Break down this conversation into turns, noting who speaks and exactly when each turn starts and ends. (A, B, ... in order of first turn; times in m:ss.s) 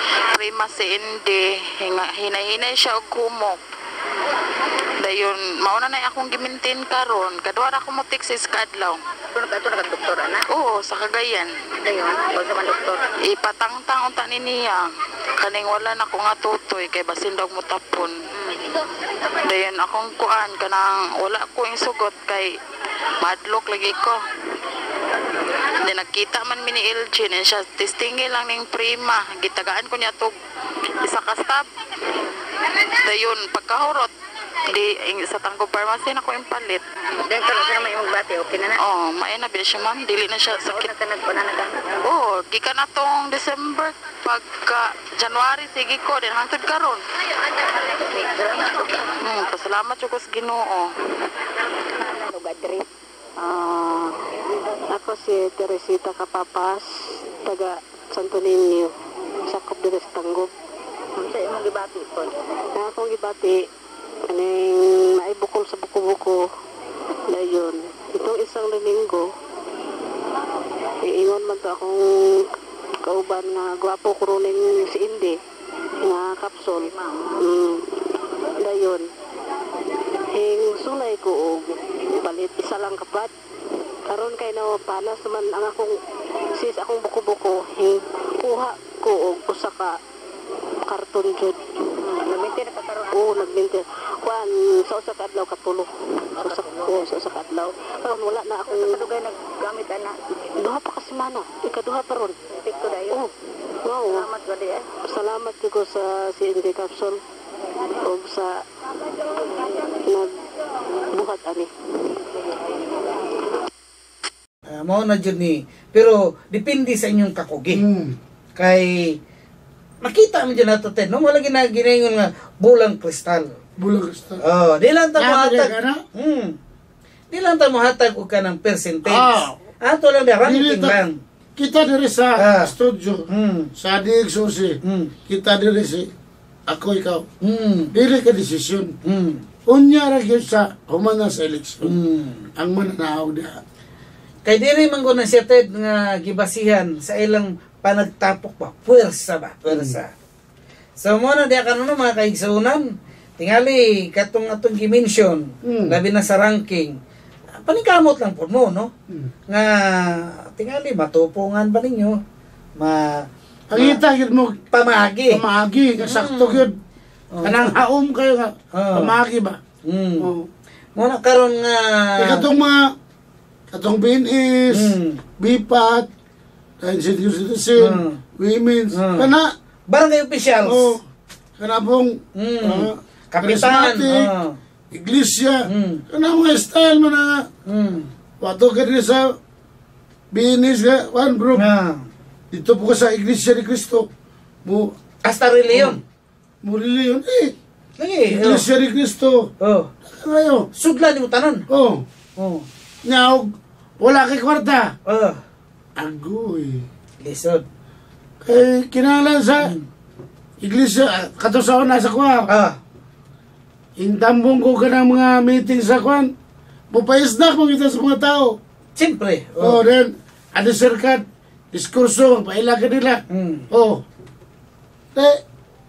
0:00.3-0:03.6 A
0:05.0-0:09.0 A
0:09.4-0:10.4 B
0:10.5-0:11.5 A
0:11.9-0:13.0 B
0:13.2-0:14.8 A
0:15.4-0:18.6 A
0:19.4-0:22.6 A
0:23.2-0:24.2 A
0:25.8-0:30.3 A
0:31.0-0:31.7 A
0:33.0-0:34.1 A
0:34.7-0:36.8 A
0:37.3-0:38.8 B
0:38.8-0:40.9 A
0:40.7-0:41.8 B
0:42.0-0:47.0 A
0:48.2-0:49.0 B
0:49.2-0:50.9 A
0:52.1-0:52.8 B
0:53.4-0:54.1 C
0:54.9-0:56.8 C
0:57.4-0:58.9 C
0:59.5-1:00.5 C
1:01.2-1:02.3 B
1:02.8-1:03.6 C
1:04.3-1:06.4 C
1:07.3-1:09.3 C
1:11.0-1:12.4 C
1:13.1-1:15.4 C
1:16.0-1:16.9 C
1:17.4-1:17.8 C
1:18.6-1:19.1 C
1:20.3-1:23.3 C
1:24.1-1:26.0 C
1:26.6-1:29.9 C
1:30.9-1:31.6 C
1:32.1-1:33.2 B
1:33.1-1:39.1 C
1:36.4-1:37.0 B
1:38.7-1:40.2 B
1:40.6-1:42.5 C
1:42.6-1:43.2 B
1:43.8-1:44.3 C
1:44.1-1:44.8 B
1:45.1-1:47.2 C
1:48.0-1:48.6 C
1:50.0-1:50.3 C
1:51.1-1:51.7 C
1:54.7-1:57.8 D
1:57.7-1:58.2 E
1:58.6-1:59.2 D
2:00.0-2:03.5 D
2:03.8-2:04.4 E
2:04.4-2:06.6 D
2:05.2-2:06.0 E
2:07.3-2:11.2 D
2:09.0-2:09.6 E
2:10.4-2:11.0 E
2:11.6-2:13.2 E
2:12.4-2:12.7 D
2:13.3-2:13.7 D
2:13.8-2:14.8 E
2:14.8-2:15.1 D
2:15.3-2:16.1 E
2:16.7-2:17.3 E
2:17.4-2:17.9 D
2:17.9-2:18.9 E
2:19.0-2:19.4 D
2:19.7-2:22.0 E
2:21.8-2:22.5 D
2:22.6-2:23.6 E
2:24.5-2:30.1 D
2:29.7-2:30.0 E
2:31.0-2:37.0 D
2:35.6-2:36.0 E
2:37.6-2:38.9 D
2:39.5-2:42.2 D
2:42.8-2:44.0 D
2:43.7-2:44.6 E
2:44.7-2:45.4 D
2:45.3-2:46.8 E
2:46.0-2:46.6 D
2:47.4-2:47.7 D
2:47.4-2:49.6 E
2:48.8-2:49.1 D
2:49.9-2:50.3 D
2:50.2-2:50.5 E
2:51.0-2:52.4 D
2:52.2-2:52.9 E
2:53.7-2:56.1 E
2:54.7-2:55.2 D
2:56.8-2:59.5 E
2:57.8-2:58.2 D
2:58.9-2:59.3 D
2:59.9-3:01.0 D
3:00.6-3:01.0 E
3:01.6-3:04.3 E
3:02.4-3:04.6 D
3:04.9-3:07.5 E
3:05.7-3:06.0 D
3:07.7-3:08.1 D
3:08.4-3:09.4 E
3:10.3-3:11.7 E
3:11.6-3:12.0 D
3:12.5-3:14.1 E
3:14.6-3:14.9 E
3:15.2-3:16.0 D
3:15.7-3:16.0 E
3:16.6-3:17.6 E
3:18.0-3:18.6 D
3:18.3-3:19.5 E
3:19.6-3:19.9 D
3:20.0-3:20.7 E
3:20.8-3:21.6 D
3:21.7-3:22.0 E
3:22.4-3:22.6 D
3:23.0-3:24.9 E
3:25.1-3:25.4 D
3:26.0-3:26.9 E
3:27.2-3:27.6 D
3:28.4-3:29.7 E
3:30.6-3:32.5 E
3:32.5-3:32.8 D
3:34.0-3:36.3 E
3:36.9-3:38.6 E
3:39.0-3:39.8 D
3:39.6-3:44.0 E
3:43.3-3:43.7 D
3:45.2-3:45.4 E